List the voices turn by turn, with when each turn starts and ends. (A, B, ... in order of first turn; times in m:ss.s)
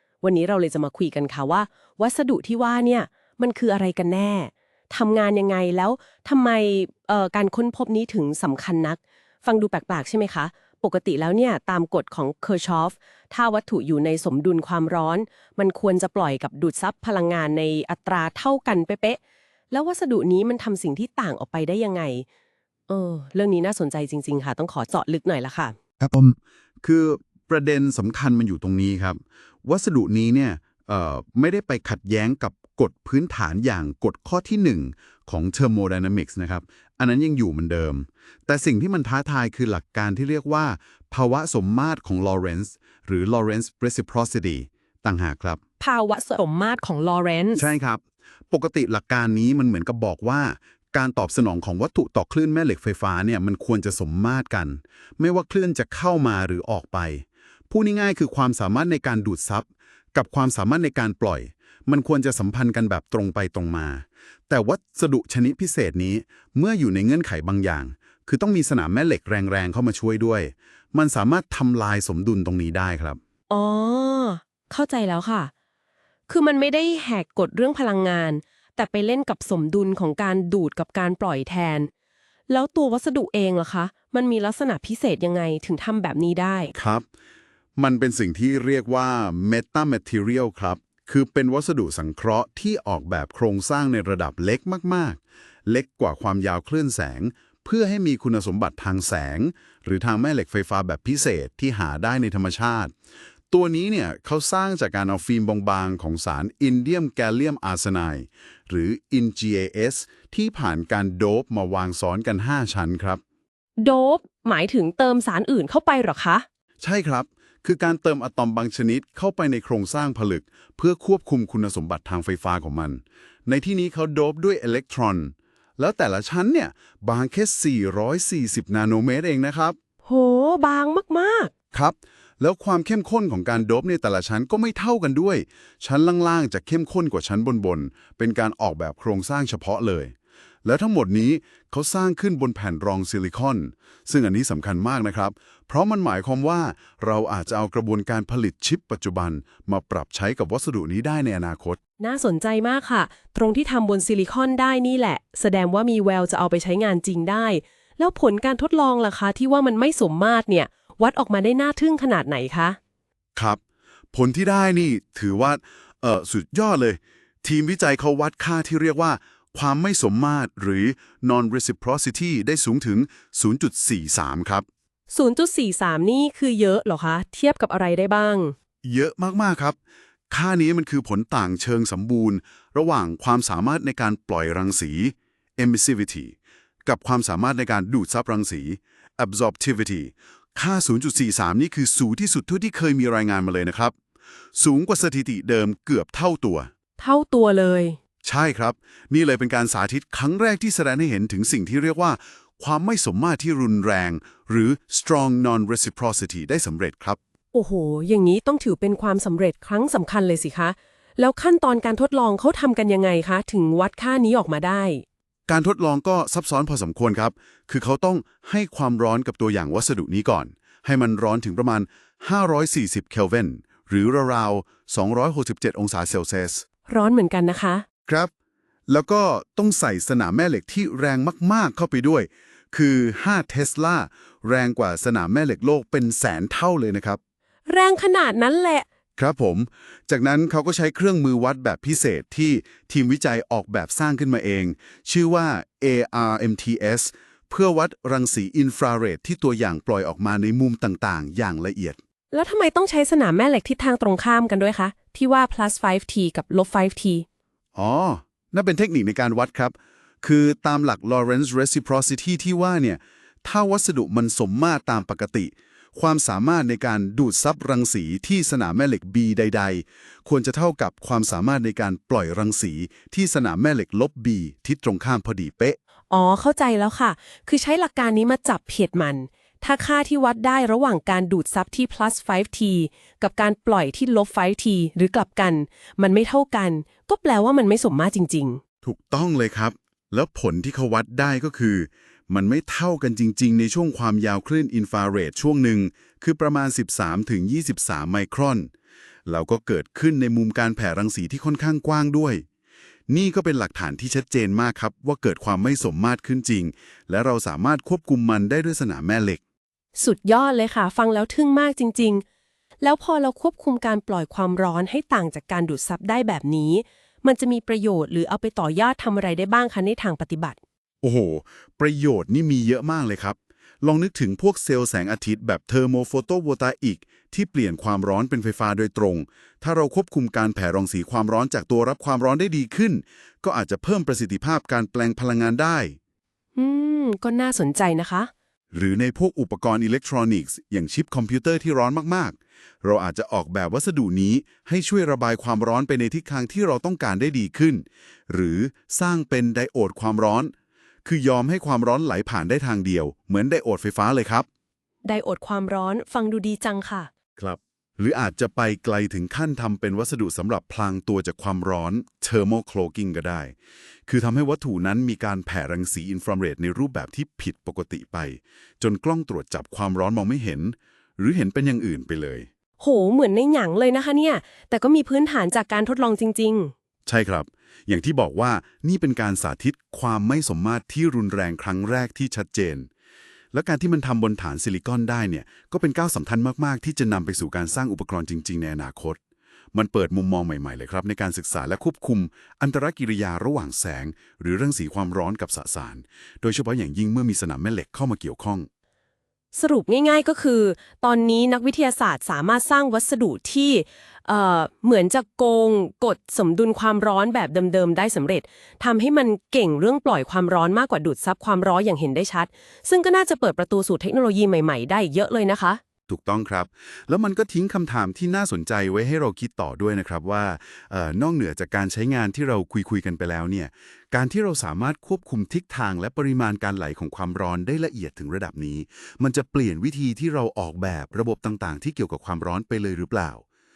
0:00.2-0:19.2 A
0:19.7-0:22.2 A
0:22.9-0:25.8 A
0:26.0-0:45.6 B
0:45.8-0:47.7 A
0:47.5-1:13.2 B
1:13.5-1:15.5 A
1:16.3-1:21.9 A
1:22.5-1:26.7 A
1:26.7-1:27.1 B
1:27.8-1:42.9 B
1:43.5-1:53.2 B
1:53.8-1:56.4 A
1:56.8-2:09.8 B
2:10.0-2:11.5 A
2:11.7-2:20.1 B
2:20.6-2:31.8 B
2:32.0-2:42.8 A
2:43.3-2:43.6 B
2:44.1-2:54.6 B
2:55.1-2:58.5 A
2:58.8-2:59.8 B
3:00.3-3:13.9 B
3:14.5-3:16.7 B
3:17.0-3:18.0 A
3:18.2-3:27.2 B
3:27.5-3:35.0 A
3:35.5-3:46.6 B
3:46.9-3:47.8 A
3:48.0-3:48.3 B
3:48.9-3:57.2 B
3:57.7-3:58.8 A
3:59.2-4:12.0 B
4:12.3-4:17.2 A
4:17.7-4:35.8 B
4:36.1-4:48.6 A
4:48.8-4:58.7 B
4:59.2-5:02.4 B
5:03.1-5:09.4 B
5:09.9-5:12.2 A
5:12.8-5:20.6 A
5:21.0-5:36.0 B
5:36.6-5:38.3 A
5:38.7-5:50.5 B
5:51.0-5:54.4 B
5:55.0-5:57.1 A
5:57.4-6:03.5 B
6:04.1-6:12.5 B
6:12.8-6:16.7 A
6:17.0-6:22.9 B
6:23.5-6:29.2 B
6:29.7-6:38.7 B
6:39.5-6:55.8 A
6:56.1-7:13.4 B